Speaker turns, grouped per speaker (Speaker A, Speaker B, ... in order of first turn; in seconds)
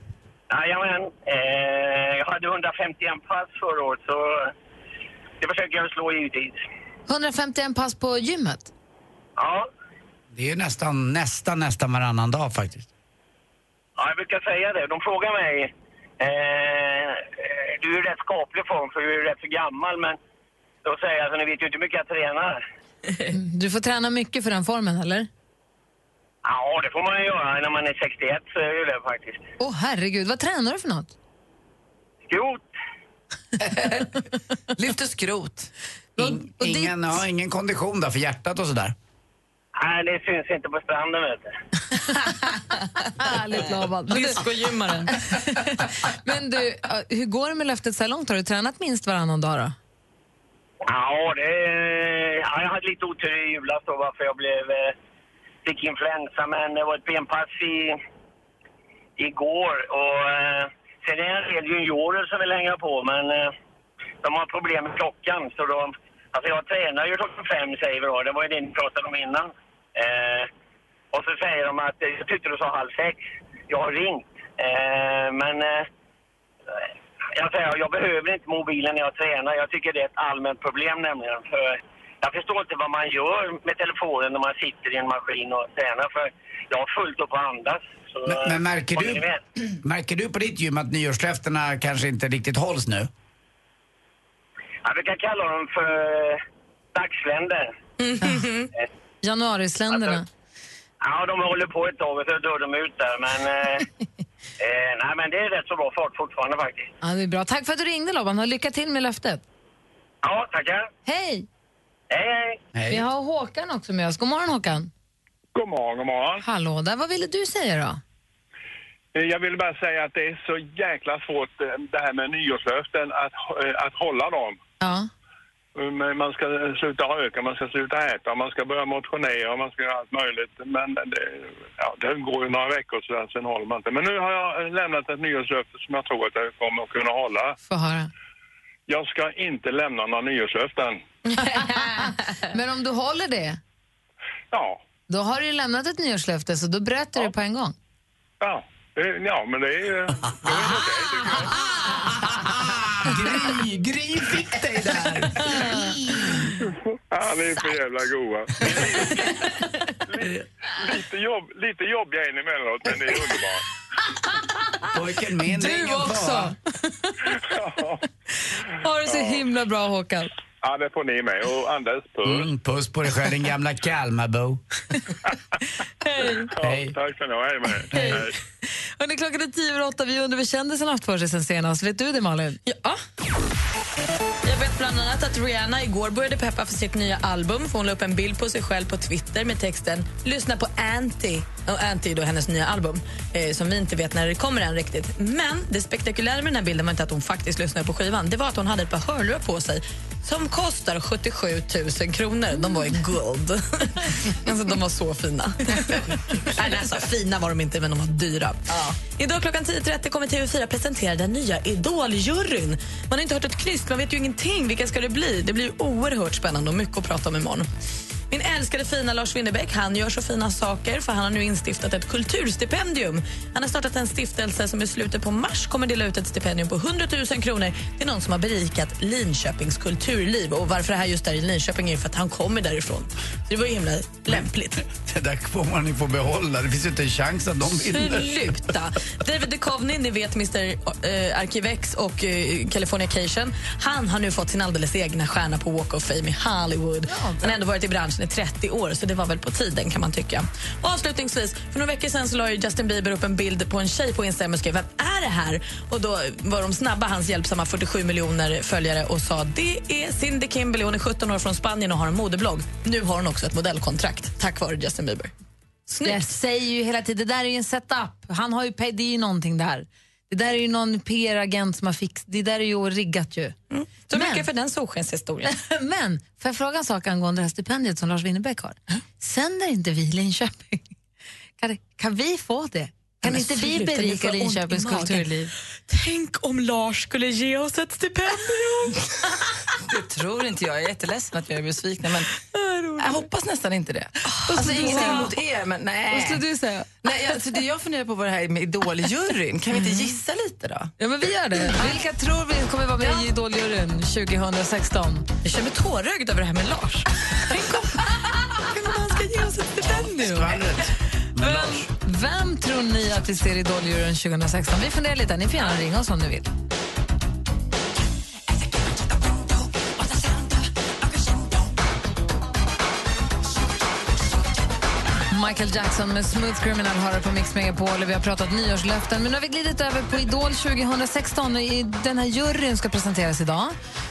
Speaker A: 0.5-4.5, 5.4-6.6, 9.4-9.7, 14.0-20.2, 20.8-22.6, 26.4-29.4, 32.3-32.7, 39.8-41.5, 50.9-54.9, 55.6-58.0, 59.2-63.5, 64.2-70.5, 71.1-75.9, 77.4-89.4, 94.8-96.4, 97.0-97.7, 99.9-100.2, 101.0-103.9, 104.6-106.9, 110.2-110.9, 112.1-112.6
Speaker B: 7.1-8.7, 23.3-25.3, 29.6-31.1, 36.2-37.1, 43.2-44.4, 45.3-49.8, 99.2-100.3, 107.0-109.4, 111.1-111.5, 112.9-114.9, 116.4-118.0, 124.8-125.1, 137.7-138.1, 141.3-143.6, 145.1-147.8, 165.5-167.1, 168.8-170.3, 176.1-176.5, 177.9-178.2, 179.0-182.6, 247.1-247.6, 266.0-273.6, 274.1-274.5, 275.4-280.9, 281.6-285.5, 294.3-295.3, 296.1-297.1, 301.0-305.3, 311.4-316.5, 325.3-333.7
Speaker C: 10.3-12.9, 36.2-39.0, 88.3-89.2, 89.8-93.1, 112.8-113.0, 151.4-156.4, 164.9-166.6, 172.2-174.6, 176.6-176.9, 177.9-178.2, 234.3-238.3, 309.8-311.9
Speaker D: 33.8-34.1, 34.8-35.7, 289.8-292.3, 293.0-296.4, 297.0-300.9
Speaker E: 44.1-45.1, 98.0-98.7, 182.7-183.0, 184.4-217.7, 218.3-234.8, 237.8-265.3, 265.9-266.3, 273.7-275.5, 283.2-289.1, 292.7-293.1, 294.6-295.3, 305.4-308.0, 308.5-310.6
Speaker F: 115.5-116.4, 119.1-124.6, 125.8-137.6, 138.9-141.0, 144.5-144.8, 148.4-151.6, 156.6-159.5, 160.1-163.7, 167.5-168.0, 169.1-169.4, 170.6-172.5, 176.5-178.3